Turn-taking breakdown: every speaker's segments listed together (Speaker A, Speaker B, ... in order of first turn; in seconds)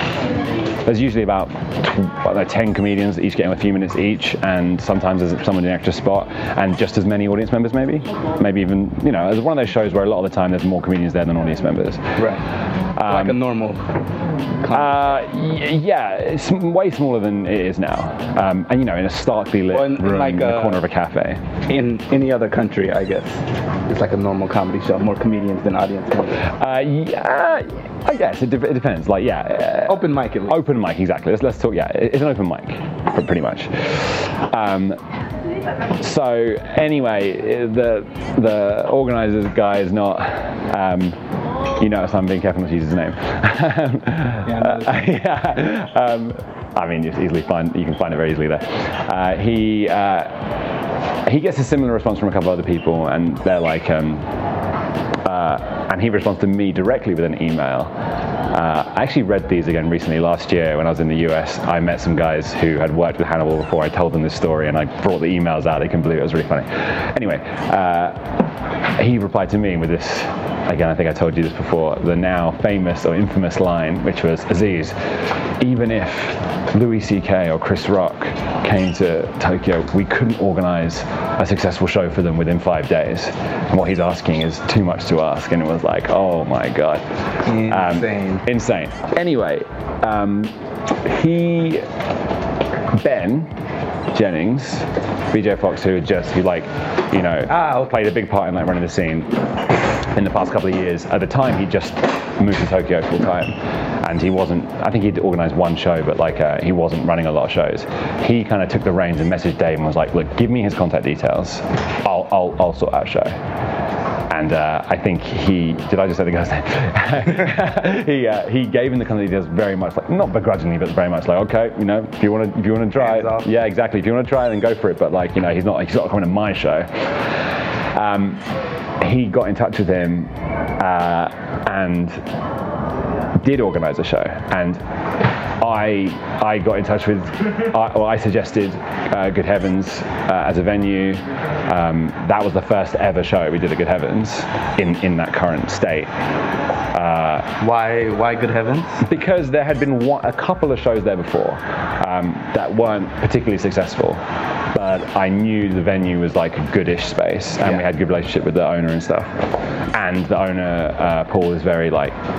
Speaker A: 0.8-12.2, 12.9-13.4, 14.7-21.4, 26.5-35.0, 36.0-41.2, 41.8-50.5, 51.2-54.2, 55.2-57.9, 58.5-68.4, 68.9-74.9, 75.6-87.0, 87.7-91.8, 93.0-93.5, 94.1-99.3, 100.1-113.4, 114.3-126.9, 127.9-128.4, 129.0-132.2, 133.3-134.8, 135.6-146.1, 146.9-147.5, 149.0-154.2, 154.7-159.3, 159.9-162.2
Speaker B: 12.2-12.4, 13.1-13.8, 14.6-15.0, 19.7-20.8, 21.7-26.4, 29.9-30.6, 44.4-45.0, 87.5-88.4, 97.5-98.0, 122.9-123.5, 147.6-149.0, 157.6-157.9